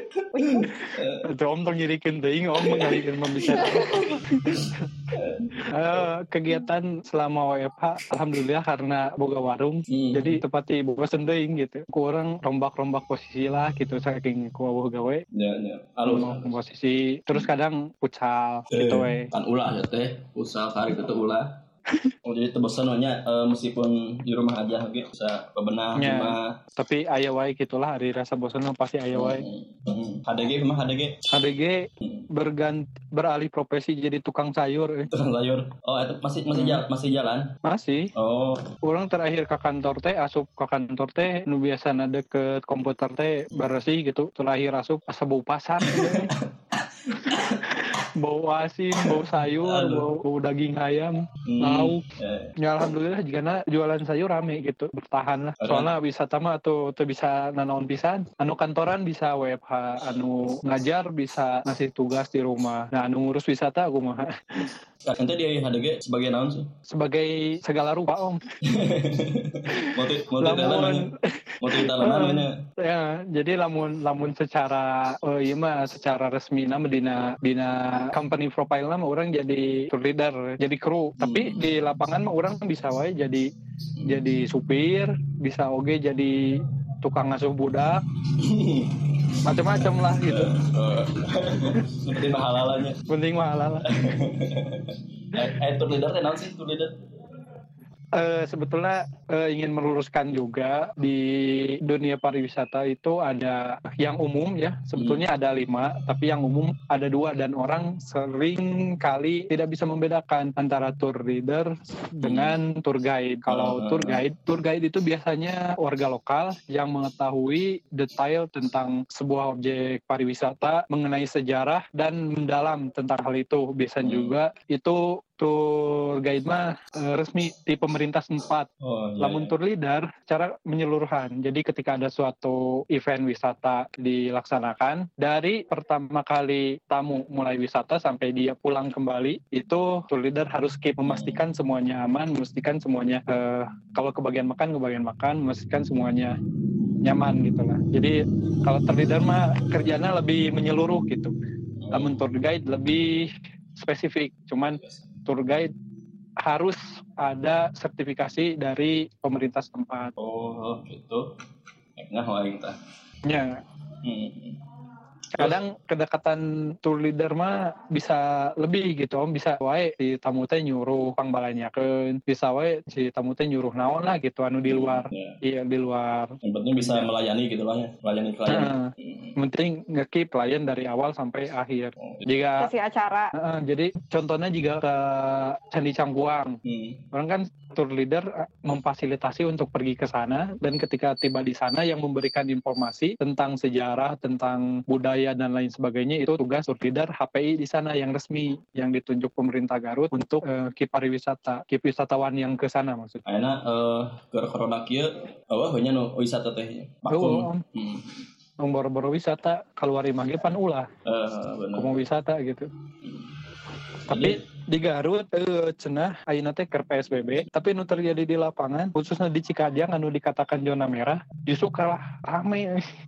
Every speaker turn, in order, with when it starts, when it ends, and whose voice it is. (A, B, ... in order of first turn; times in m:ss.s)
0:00.3-0:00.7 A
0:00.4-0:01.2 B
0:01.3-0:04.5 C
0:02.6-0:06.1 B
0:03.4-0:04.2 A
0:05.7-0:15.2 C
0:09.9-0:10.4 B
0:15.3-0:16.6 B
0:16.0-0:19.3 C
0:18.7-0:21.6 B
0:22.2-0:26.5 B
0:26.0-0:29.4 C
0:29.1-0:31.2 B
0:31.3-0:31.8 C
0:32.3-0:35.1 C
0:35.1-0:37.4 B
0:36.5-0:36.8 C
0:37.6-0:38.1 C
0:38.1-0:38.6 B
0:38.8-0:46.3 C
0:45.9-0:46.2 B
0:47.2-0:52.0 C
0:47.3-0:47.6 B
0:49.0-0:50.1 B
0:51.4-0:52.6 B
0:52.6-1:04.8 C
0:55.6-0:55.9 B
1:05.0-1:06.6 B
1:06.9-1:08.4 C
1:08.7-1:11.1 B
1:10.4-1:11.1 C
1:11.6-1:12.5 B
1:12.0-1:23.4 C
1:21.2-1:21.6 B
1:24.1-1:26.4 C
1:27.0-1:28.0 C
1:28.4-1:29.0 B
1:29.4-1:30.5 C
1:30.2-1:33.0 B
1:33.1-1:33.9 C
1:33.9-1:37.0 B
1:38.2-2:08.7 C
1:45.0-1:45.2 B
1:52.2-1:52.6 B
1:53.5-1:54.2 B
2:04.0-2:04.3 B
2:08.8-2:09.5 B
2:09.2-2:26.3 C
2:21.0-2:21.4 B
2:27.0-2:31.3 C
2:31.8-2:32.2 B
2:31.9-2:35.7 C
2:34.7-2:35.2 B
2:36.4-2:40.1 C
2:40.2-2:41.2 B
2:42.0-2:42.7 B
2:44.0-2:44.6 B
2:45.4-2:57.1 C
2:54.7-2:55.4 B
2:56.4-2:59.4 B
2:58.5-3:02.7 C
3:02.0-3:02.2 B
3:02.6-3:03.3 A
3:03.3-3:06.5 C
3:06.6-3:07.0 B
3:07.1-3:23.2 C
3:23.2-3:28.2 B
3:27.1-3:27.6 C
3:28.6-3:30.9 C
3:31.0-3:32.0 B
3:31.7-3:32.7 C
3:33.0-3:33.3 B
3:34.1-3:42.8 C
3:34.1-3:34.4 B